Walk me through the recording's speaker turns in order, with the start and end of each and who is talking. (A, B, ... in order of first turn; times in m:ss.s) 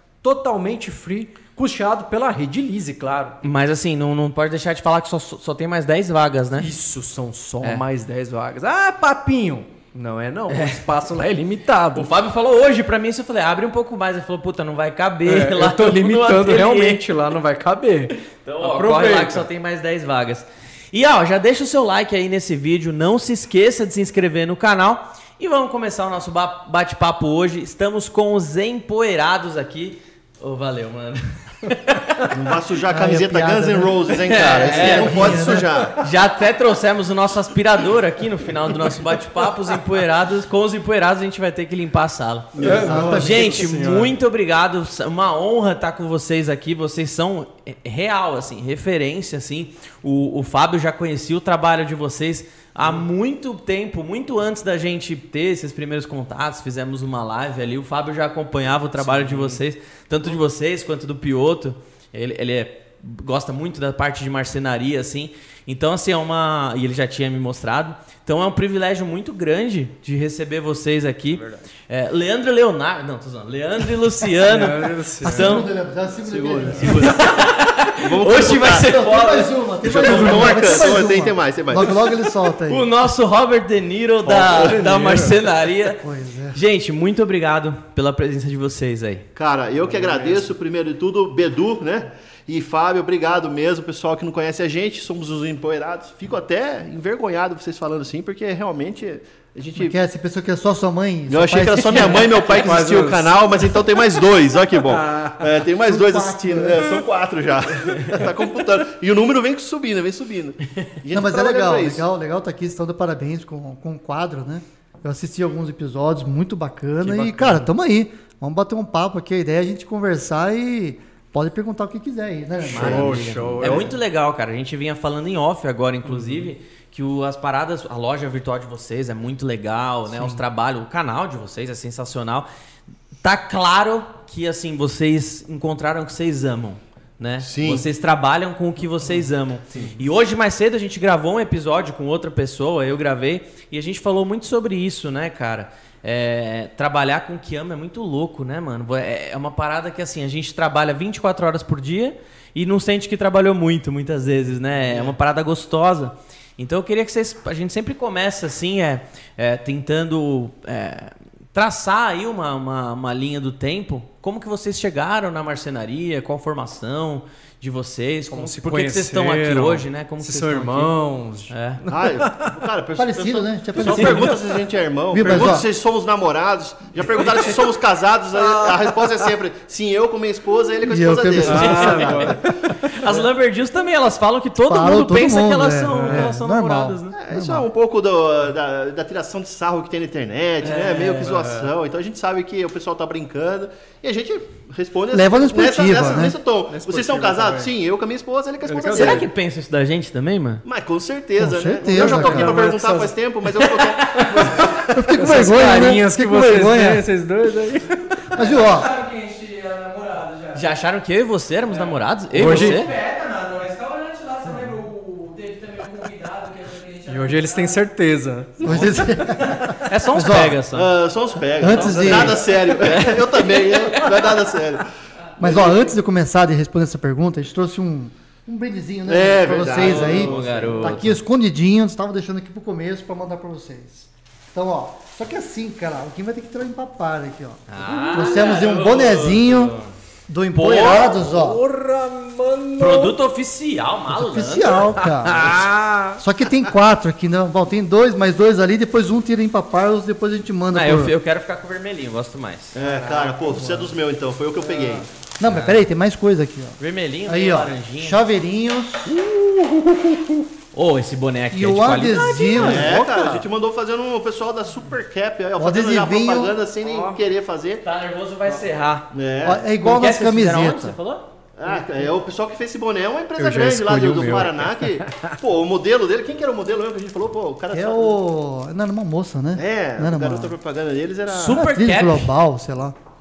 0:00.2-0:03.4 A
0:03.4-0:06.7 B
0:06.6-0:12.1 A
0:10.5-0:10.8 B
0:11.9-0:17.0 B
0:15.2-0:19.4 A
0:18.2-0:32.3 B
0:32.3-0:36.0 C
0:32.9-0:35.7 D
0:34.2-1:15.7 B
0:42.6-0:44.1 A
0:42.6-0:43.7 D
0:59.0-0:59.6 A
1:14.4-1:15.6 A
1:15.2-1:17.1 D
1:16.2-1:18.9 C
1:16.8-1:20.7 B
1:18.5-1:22.9 D
1:19.8-1:22.0 C
1:22.6-1:29.2 B
1:24.2-1:24.8 C
1:24.4-1:25.3 A
1:25.9-1:26.6 D
1:29.4-1:39.9 C
1:29.8-1:30.5 A
1:39.8-1:42.4 D
1:41.3-1:52.0 C
1:41.9-1:44.0 A
1:44.8-1:45.6 A
1:45.8-1:47.0 D
1:51.1-2:03.4 D
1:57.0-1:57.6 B
2:02.7-2:04.0 A
2:02.7-2:12.5 B
2:06.0-2:06.5 A
2:10.1-2:10.4 A
2:13.2-2:50.9 B
2:17.4-2:17.8 C
2:34.8-2:35.2 C
2:48.3-2:52.5 A
2:51.5-2:51.8 B
2:51.9-3:02.4 C
2:53.0-2:54.4 D
2:53.8-2:54.4 A
2:55.1-2:55.7 D
2:58.3-2:59.2 A
3:00.8-3:02.4 D
3:01.4-3:02.9 A
3:02.7-3:07.2 B
3:04.6-3:07.7 D
3:05.9-3:06.3 A
3:07.2-3:19.3 C
3:10.6-3:11.4 B
3:11.2-3:11.7 A
3:15.1-3:16.4 D
3:16.7-3:17.7 A
3:18.6-3:19.2 A
3:18.9-3:20.6 B
3:20.6-3:25.6 C
3:21.4-3:22.5 D
3:21.8-3:23.1 A
3:23.6-3:24.4 B
3:24.7-3:27.0 D
3:25.1-3:28.5 A
3:28.3-3:28.9 D
3:28.4-3:30.6 E
3:30.5-3:32.9 B
3:32.3-3:32.9 A
3:32.4-3:37.6 E
3:37.1-3:38.8 A
3:38.6-3:40.6 D
3:39.5-3:40.9 B
3:40.7-3:44.9 C
3:41.6-3:42.7 D
3:41.8-3:44.1 B
3:45.4-3:59.7 D
3:45.4-3:45.8 C
3:49.0-3:51.0 C
3:49.8-3:51.2 B
3:57.7-3:59.9 B
3:57.8-3:58.4 A
4:00.3-4:01.6 D
4:00.5-4:01.2 B
4:00.7-4:03.2 A
4:02.8-4:05.8 B
4:04.1-4:05.6 D
4:05.0-4:06.2 A
4:06.2-4:11.1 D
4:10.7-4:12.8 B
4:12.7-4:15.1 C
4:12.8-4:13.9 A
4:14.6-4:15.0 A
4:15.4-4:19.2 D
4:15.4-4:15.8 B
4:16.8-4:18.2 B
4:19.1-4:19.8 B
4:20.7-4:23.0 B
4:21.5-4:23.5 D
4:22.5-4:27.8 C
4:25.6-4:26.6 D
4:26.8-4:27.2 A
4:27.8-4:29.1 B
4:29.1-4:29.6 C
4:29.4-4:31.0 D
4:29.8-4:31.3 B
4:31.6-4:38.2 C
4:33.4-4:35.3 A
4:37.7-4:40.6 D
4:39.5-4:41.6 C
4:41.3-4:42.3 B
4:41.5-4:43.0 D